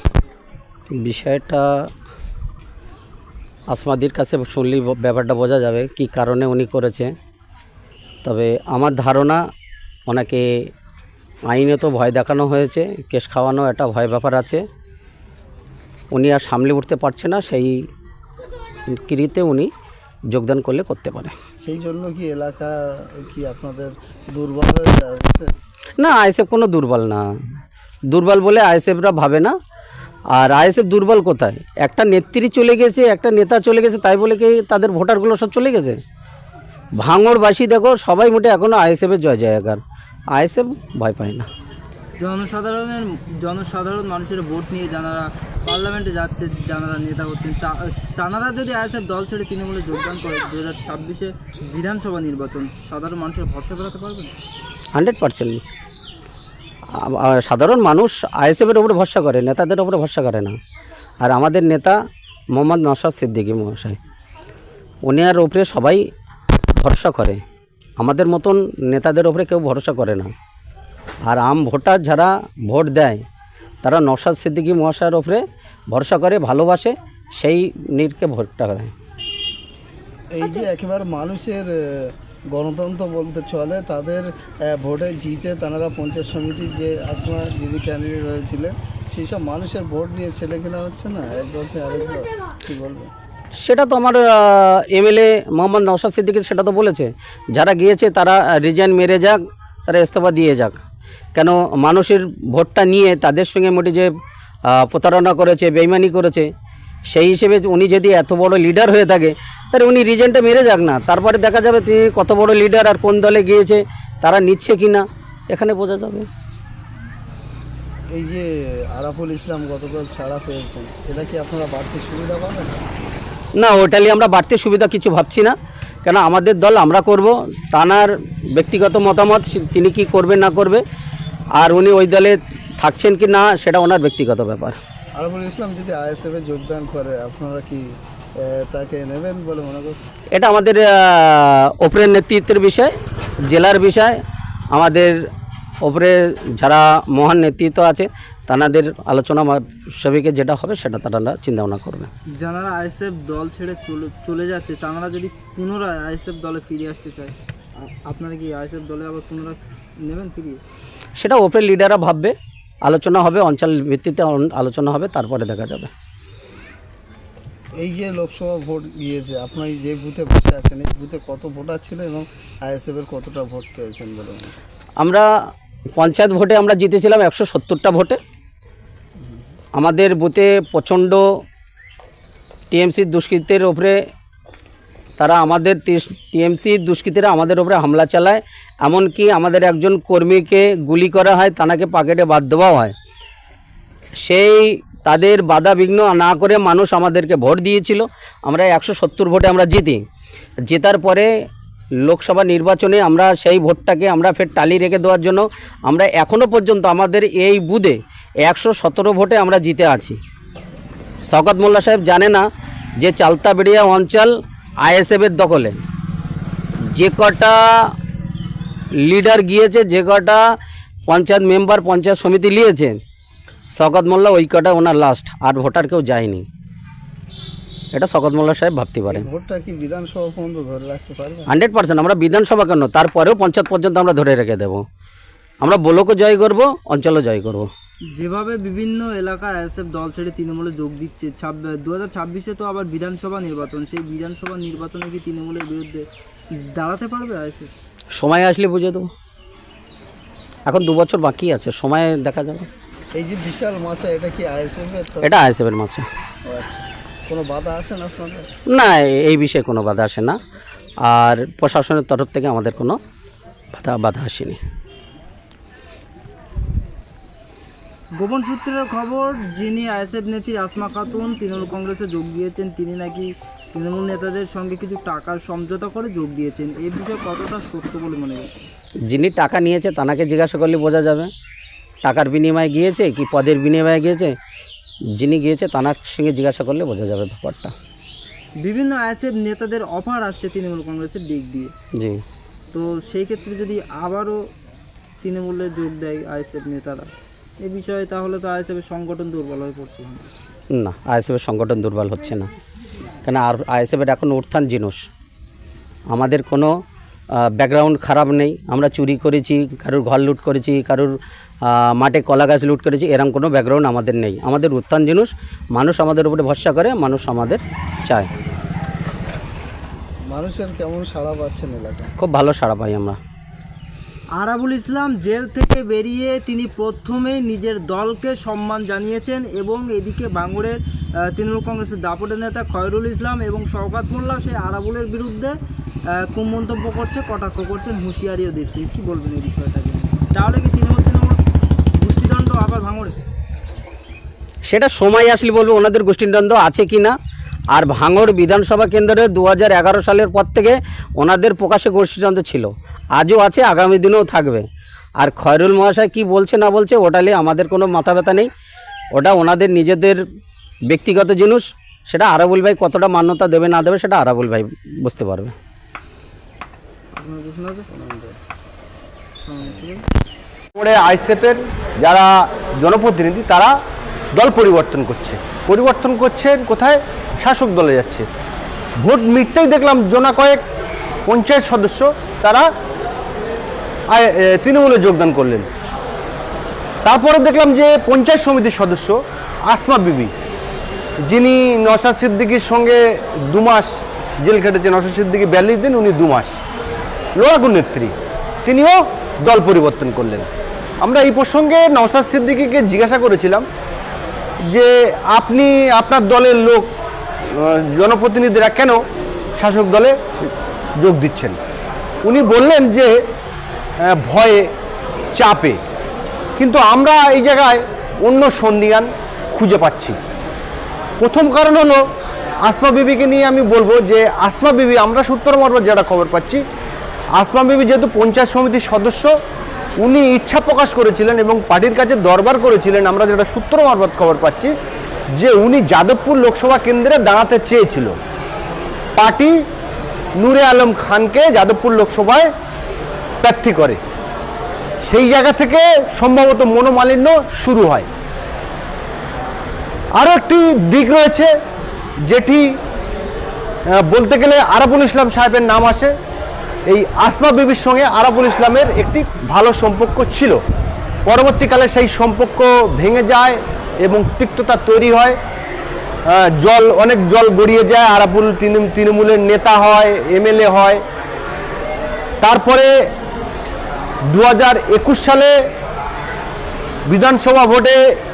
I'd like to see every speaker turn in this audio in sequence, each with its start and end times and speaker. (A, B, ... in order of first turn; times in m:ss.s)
0:01.0-0:01.9 A
0:03.7-0:07.1 A
0:08.2-0:09.4 A
0:10.1-0:10.7 A
0:11.5-0:14.6 A
0:16.1-0:17.8 A
0:18.9-0:19.7 A
0:20.3-0:21.3 A
0:21.6-0:25.5 B
0:26.0-0:27.2 A
0:28.1-0:29.5 A
0:30.3-0:36.0 A
0:37.0-0:41.5 A
0:42.2-0:54.3 C
0:54.9-0:55.6 A
0:56.9-1:00.5 A
1:01.2-1:02.0 A
1:02.5-1:04.0 A
1:05.0-1:06.0 A
1:06.8-1:07.4 A
1:08.0-1:10.3 A
1:11.3-1:13.2 A
1:13.8-1:18.9 A
1:20.3-1:33.1 B
1:33.6-1:40.8 A
1:41.3-1:44.1 A
1:44.7-1:46.5 A
1:47.1-1:56.3 A
1:58.1-2:02.8 B
2:03.6-2:10.8 A
2:11.6-2:14.8 A
2:15.2-2:20.1 B
2:20.3-2:22.9 A
2:23.5-2:24.2 A
2:24.7-2:25.1 A
2:25.8-2:32.1 A
2:32.4-2:37.3 C
2:37.9-2:40.6 C
2:41.2-2:45.9 A
2:47.8-2:54.5 B
2:55.0-2:55.3 A
2:56.0-2:58.2 A
2:59.7-3:01.2 A
3:02.7-3:04.0 A
3:05.2-3:12.9 A
3:14.2-3:20.0 A
3:20.7-3:21.3 A
3:22.0-3:30.2 A
3:31.3-3:32.4 A
3:33.0-3:35.7 A
3:36.9-3:37.9 A
3:39.0-3:40.4 A
3:41.1-3:43.0 A
3:43.7-3:46.4 A
3:47.9-3:49.3 A
3:49.1-3:51.5 B
3:51.5-3:54.8 A
3:55.6-3:57.7 A
3:58.1-4:06.0 C
4:06.6-4:07.7 C
4:08.2-4:09.1 A
4:10.6-4:12.7 A
4:13.1-4:15.3 B
4:15.2-4:16.1 A
4:16.4-4:18.5 B
4:18.7-4:20.4 A
4:21.0-4:23.0 A
4:23.7-4:24.6 A
4:28.2-4:38.5 C
4:39.1-4:41.3 A
4:42.0-4:44.3 A
4:45.2-4:47.7 A
4:48.6-4:51.7 C
4:51.9-4:52.2 A
4:52.7-4:54.4 C
4:55.2-5:00.3 C
5:00.7-5:02.5 A
5:03.2-5:05.1 A
5:06.1-5:06.7 A
5:07.4-5:11.1 A
5:11.6-5:18.3 A
5:20.3-5:22.1 B
5:22.2-5:23.2 A
5:24.4-5:35.5 C
5:36.2-5:41.4 C
5:41.9-5:43.2 C
5:44.6-5:47.2 A
5:47.7-5:54.6 A
5:55.2-5:58.5 A
5:59.1-6:00.2 A
6:00.9-6:05.5 A
6:07.2-6:07.9 C
6:07.9-6:08.4 B
6:09.5-6:10.0 C
6:10.7-6:13.7 D
6:14.3-6:18.3 D
6:19.0-6:20.6 D
6:21.2-6:22.7 D
6:24.1-6:25.7 D
6:27.0-6:30.3 D
6:31.3-6:36.5 D
6:37.4-6:38.1 D
6:38.6-6:40.5 D
6:41.0-6:43.6 D
6:44.7-6:46.9 D
6:47.5-6:49.0 D
6:49.6-6:51.6 D
6:52.2-6:53.2 D
6:54.0-6:54.7 D
6:55.3-6:55.8 D
6:56.6-7:00.2 D
7:01.2-7:02.0 D
7:02.6-7:06.6 D
7:07.4-7:09.3 D
7:10.0-7:14.7 D
7:15.4-7:18.2 D
7:19.2-7:19.6 D
7:20.4-7:22.5 D
7:23.4-7:24.0 D
7:25.0-7:28.1 D
7:30.2-7:31.5 D
7:32.2-7:32.7 D
7:33.9-7:36.1 D
7:36.9-7:40.6 D
7:41.2-7:45.4 D
7:46.3-7:51.0 D
7:52.4-7:52.9 D
7:54.3-7:55.5 D
7:57.1-7:58.0 D